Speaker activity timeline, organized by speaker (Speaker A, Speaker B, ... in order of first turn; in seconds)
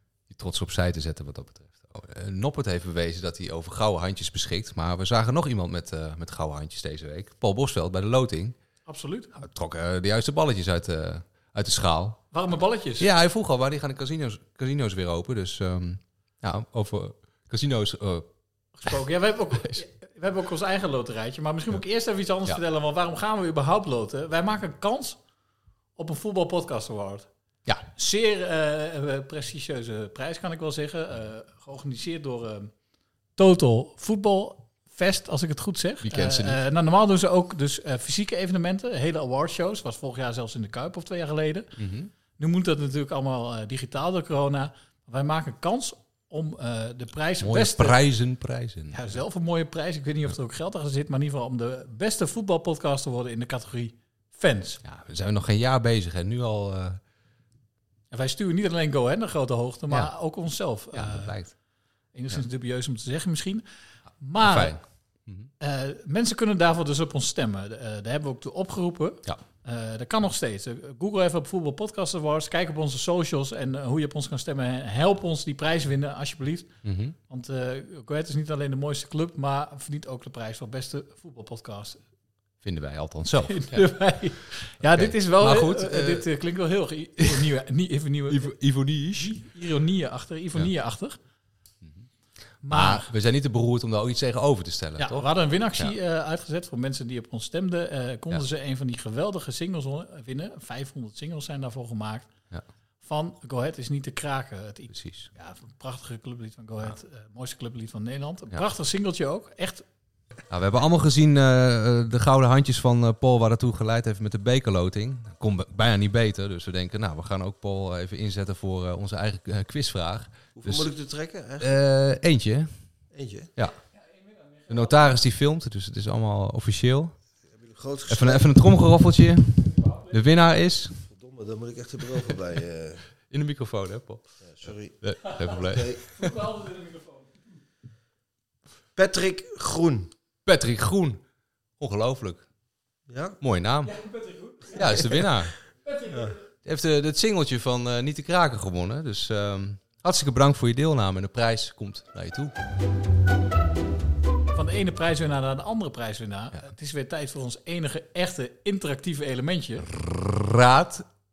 Speaker A: 0.3-8.6, 9.4-12.2, 13.0-18.3, 36.0-36.6, 41.8-42.1, 47.4-49.2, 54.8-57.0, 60.9-61.5, 64.4-65.5, 76.8-77.2, 82.6-84.0, 84.8-86.3, 87.2-87.5, 88.3-89.4, 91.8-92.1, 92.6-96.0, 104.9-105.3, 110.5-120.9, 121.6-122.8, 123.6-123.8, 124.7-127.2, 128.1-131.0, 133.3-136.0, 140.5-141.2, 141.8-142.4, 143.4-143.9, 144.7-145.6, 146.7-152.5, 159.8-161.1
Speaker B: 8.9-9.4, 12.3-13.1, 18.8-25.2, 26.0-27.3, 27.9-32.7, 33.4-41.7, 42.4-48.0, 48.9-54.8, 58.1-61.4, 62.1-63.6, 64.2-64.8, 65.6-76.7, 77.3-82.0, 83.5-88.5, 89.2-91.2, 92.6-93.1, 95.0-102.3, 103.0-109.8, 136.2-137.3, 143.9-145.2, 145.8-146.4, 154.5-159.9
Speaker C: 120.6-121.8, 123.1-123.5, 127.5-128.5, 131.1-133.0, 134.4-136.2, 138.9-140.1, 143.1-143.4